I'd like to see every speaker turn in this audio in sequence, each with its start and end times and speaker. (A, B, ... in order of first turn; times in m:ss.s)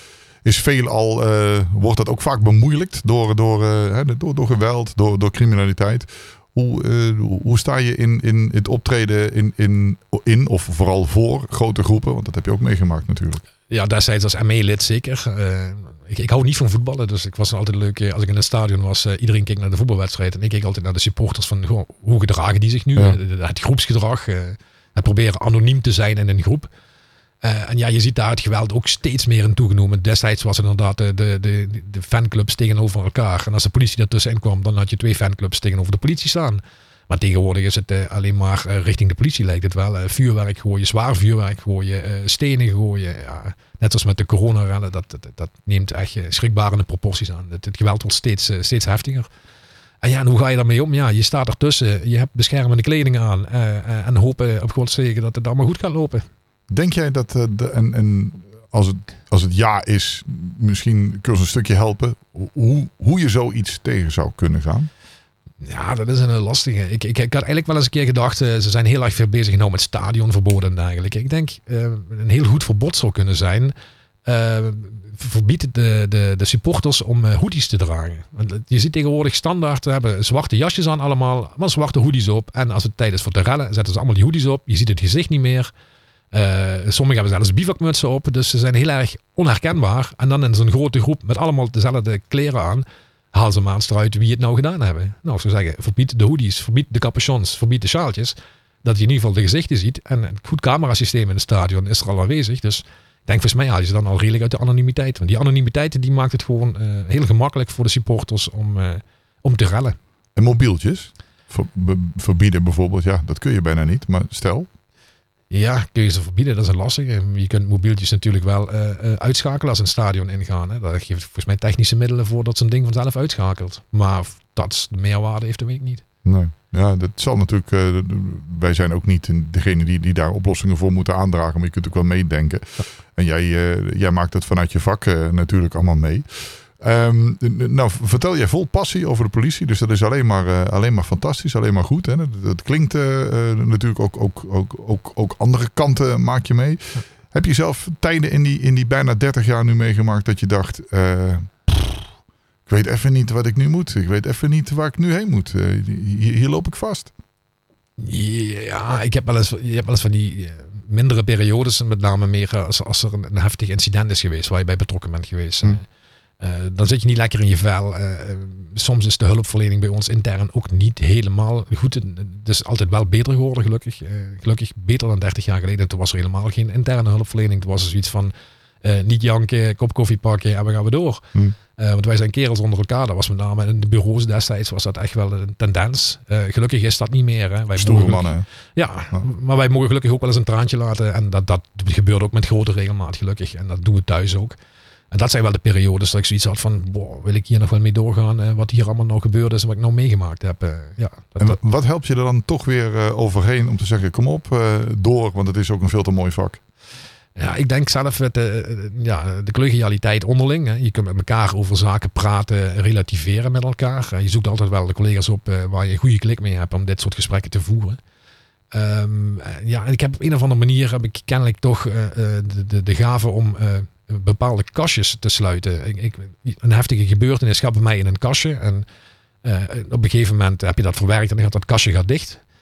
0:00.4-0:13.4 A
0:13.7-0:26.7 B
0:27.4-0:49.3 B
0:50.0-0:56.2 B
0:56.7-1:04.9 A
1:05.6-1:13.7 B
1:14.2-1:25.7 B
1:26.3-1:50.0 B
1:50.4-1:54.7 A
1:55.5-2:06.0 B
2:06.2-2:32.1 A
2:32.7-2:37.1 A
2:38.0-2:45.8 B
2:46.4-2:58.3 B
2:58.8-3:14.6 B
3:07.8-3:08.4 A
3:15.1-3:21.6 B
3:21.4-3:26.6 A
3:27.4-3:38.0 B
3:38.7-3:48.8 B
3:49.4-3:52.4 B